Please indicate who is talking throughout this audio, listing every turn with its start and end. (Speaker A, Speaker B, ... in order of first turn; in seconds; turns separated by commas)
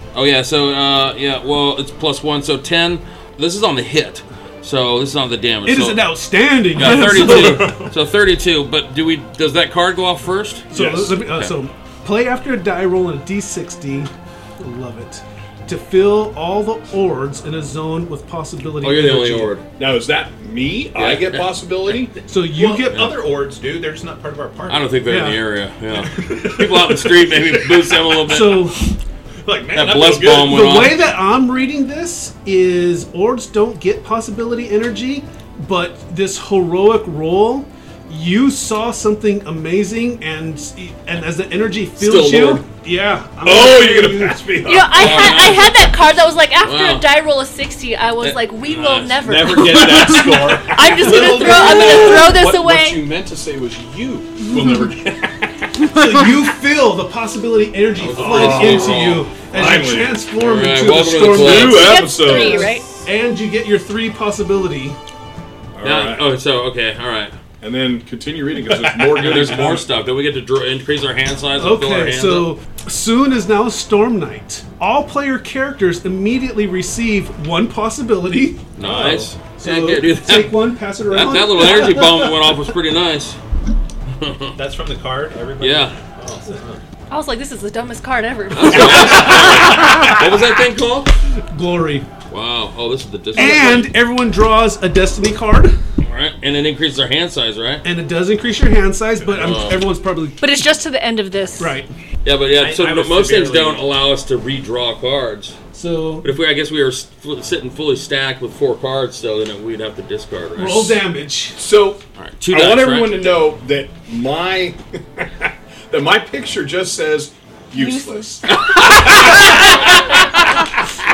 Speaker A: 0.1-6.1, Speaker B: 5.7-7.9, Speaker A: 6.8-10.7, Speaker C: 6.9-7.9, Speaker B: 10.7-19.5, Speaker D: 10.7-11.2, Speaker A: 18.8-19.6, Speaker D: 19.8-22.2, Speaker A: 20.9-22.2, Speaker B: 22.3-23.1, Speaker C: 22.5-25.0, Speaker A: 24.7-28.7, Speaker B: 25.1-25.4, Speaker C: 25.9-27.8, Speaker B: 28.3-28.8, Speaker C: 29.4-30.5, Speaker A: 29.7-31.0, Speaker B: 30.3-44.4, Speaker A: 42.0-42.6, Speaker D: 43.4-45.3, Speaker E: 44.6-53.1, Speaker A: 44.9-47.3, Speaker A: 48.2-49.8, Speaker C: 49.3-52.1, Speaker D: 49.3-55.8, Speaker B: 55.9-62.5, Speaker A: 58.0-59.3, Speaker D: 58.2-60.2, Speaker A: 60.4-62.0, Speaker D: 61.2-62.7, Speaker E: 61.6-62.9, Speaker C: 62.6-63.0, Speaker B: 63.0-65.0, Speaker D: 65.7-66.3, Speaker A: 65.8-67.4, Speaker D: 67.6-69.9, Speaker C: 69.1-69.5, Speaker A: 69.1-72.5, Speaker B: 71.6-78.7, Speaker A: 78.8-83.4, Speaker C: 78.8-79.3, Speaker B: 79.6-82.5, Speaker A: 84.2-84.6, Speaker C: 84.6-86.8, Speaker A: 85.6-86.0, Speaker E: 87.1-89.9, Speaker A: 88.5-91.1, Speaker B: 91.4-92.1, Speaker A: 92.3-93.9, Speaker B: 93.3-95.8, Speaker A: 96.0-97.8, Speaker B: 97.8-100.7, Speaker C: 99.2-99.6, Speaker A: 99.3-99.8, Speaker E: 100.4-101.8, Speaker B: 101.6-101.9, Speaker A: 102.2-105.6, Speaker C: 102.5-103.8, Speaker B: 105.7-106.3, Speaker A: 106.2-111.0, Speaker B: 110.5-111.6, Speaker D: 111.6-119.7, Speaker A: 112.2-113.5, Speaker E: 117.7-118.3, Speaker A: 118.5-120.7